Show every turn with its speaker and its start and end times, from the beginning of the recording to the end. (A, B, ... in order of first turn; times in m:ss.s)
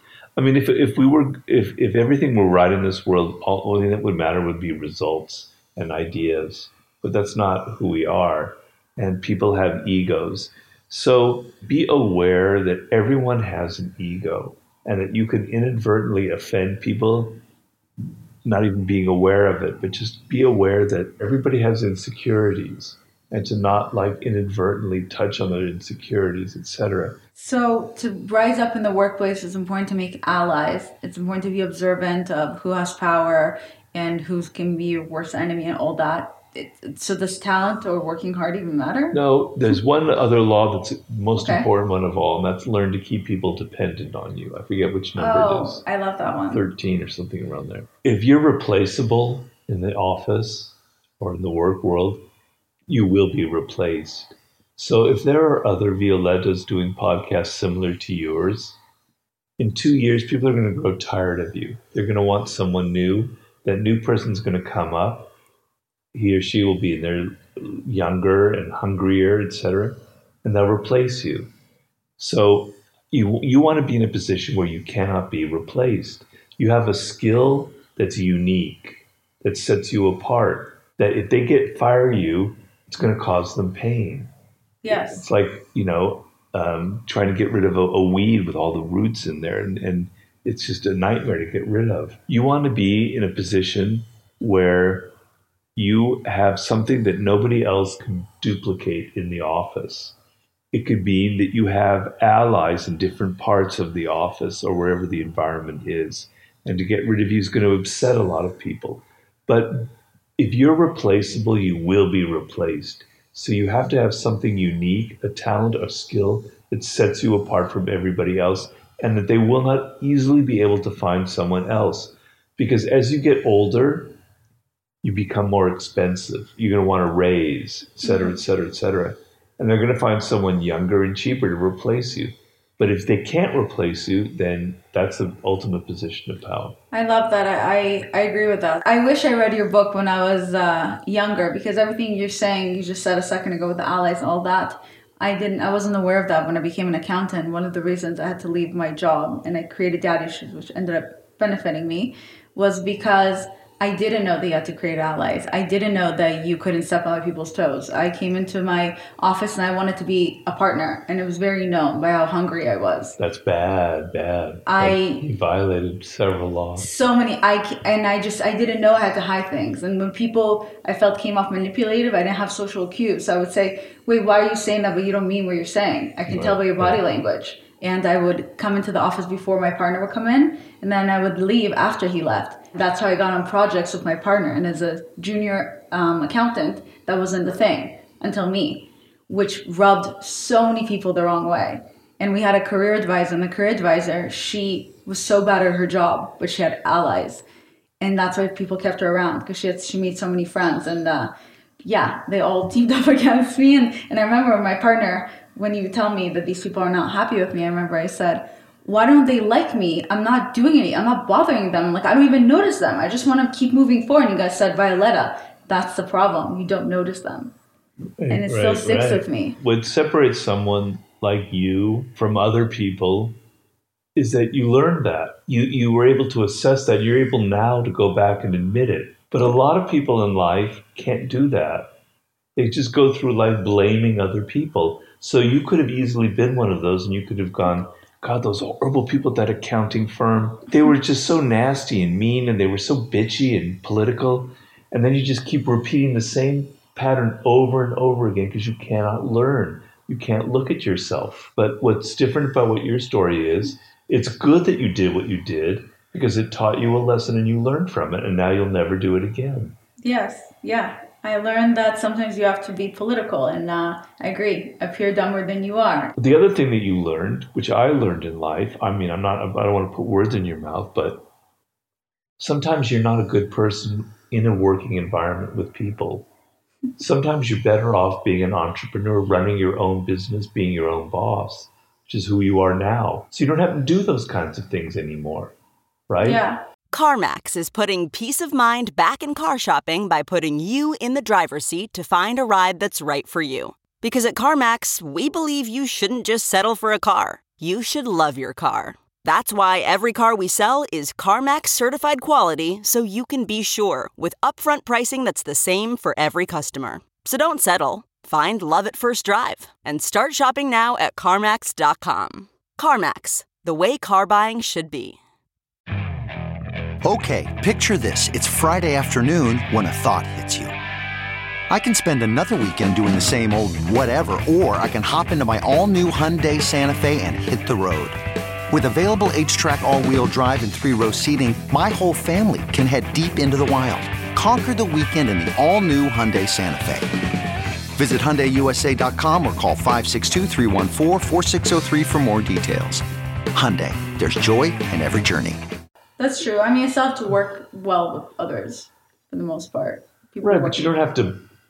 0:00.4-0:17.4 A
0:18.4-0:27.2 A
0:27.4-0:39.2 B
0:39.1-0:45.8 A
0:41.3-0:41.7 B
0:45.2-0:46.7 B
0:46.4-0:52.3 A
0:52.9-0:58.8 A
0:59.6-1:05.3 A
1:06.1-1:11.5 A
1:12.2-1:24.3 A
1:24.8-1:25.2 B
1:24.9-1:35.1 A
1:35.8-1:40.2 A
1:40.7-2:04.2 A
2:05.0-2:16.8 A
2:08.0-2:08.4 B
2:16.9-2:43.2 B
2:43.2-2:46.9 A
2:44.6-2:45.2 B
2:46.8-3:17.4 B
2:56.3-2:57.0 A
3:18.0-3:37.5 B
3:38.2-3:43.4 A
3:38.3-3:39.6 B
3:44.1-3:51.9 A
3:52.6-4:19.8 A
4:20.0-4:26.1 B
4:26.2-4:31.3 A
4:32.4-4:36.3 A
4:37.0-4:45.6 A
4:46.1-4:46.4 A
4:46.2-4:46.6 B
4:46.9-5:15.2 C
5:17.0-5:20.7 D
5:21.7-5:28.2 D
5:28.7-5:37.1 D
5:38.0-5:45.6 D
5:46.2-5:50.9 B
5:50.4-5:51.5 A